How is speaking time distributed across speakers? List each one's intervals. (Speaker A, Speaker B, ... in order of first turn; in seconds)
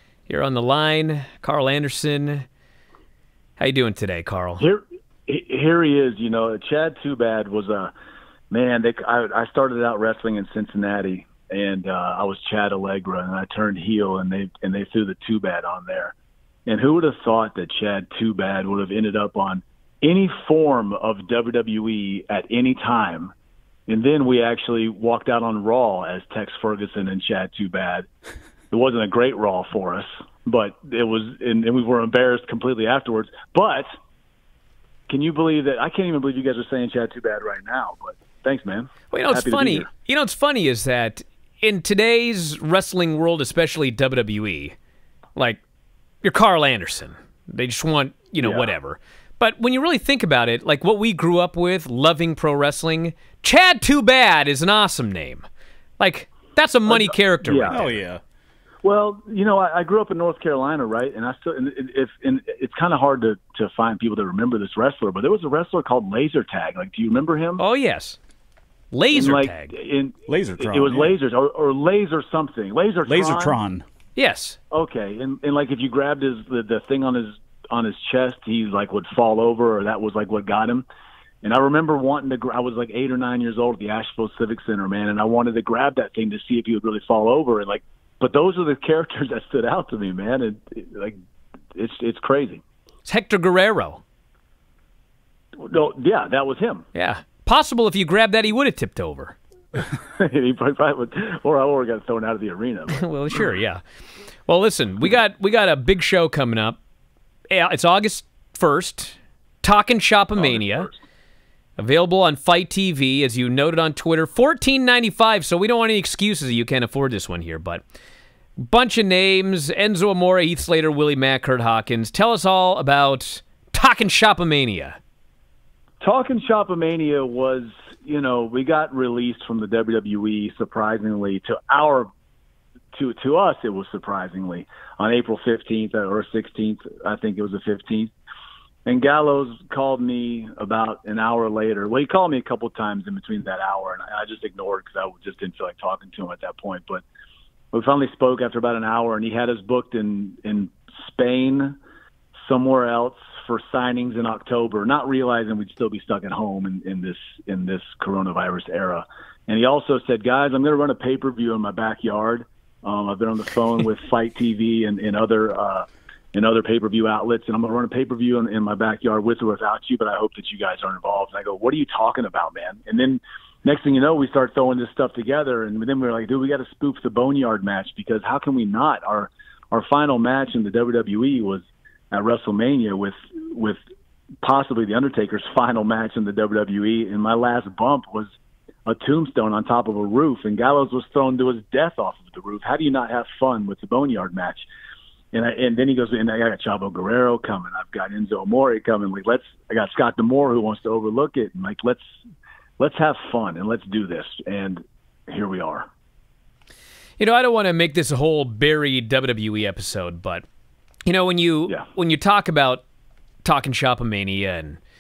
Speaker A: 0.3-2.5, 3.6-4.7, 39.1-44.8, 46.2-55.4, 56.0-57.9, 67.6-68.2, 68.9-69.7, 74.2-74.6, 93.0-94.0, 97.0-99.4, 102.9-103.8, 104.5-106.8, 107.5-110.9, 111.8-117.8, 118.6-125.0, 207.2-210.4, 211.1-212.8, 213.4-214.8
Speaker B: 4.6-7.9, 8.5-16.1, 16.7-23.3, 23.9-28.1, 28.7-33.9, 35.1-39.9, 48.4-48.7, 56.9-57.8, 58.8-67.6, 69.1-73.6, 74.7-80.8, 81.4-91.2, 91.8-92.6, 95.6-96.9, 100.2-103.0, 126.0-132.1, 132.9-138.1, 138.9-147.0, 147.7-151.8, 152.3-183.8, 184.4-188.3, 188.9-194.7, 195.3-202.0, 202.8-205.9
Speaker C: 57.7-58.2, 70.3-71.2, 73.1-73.8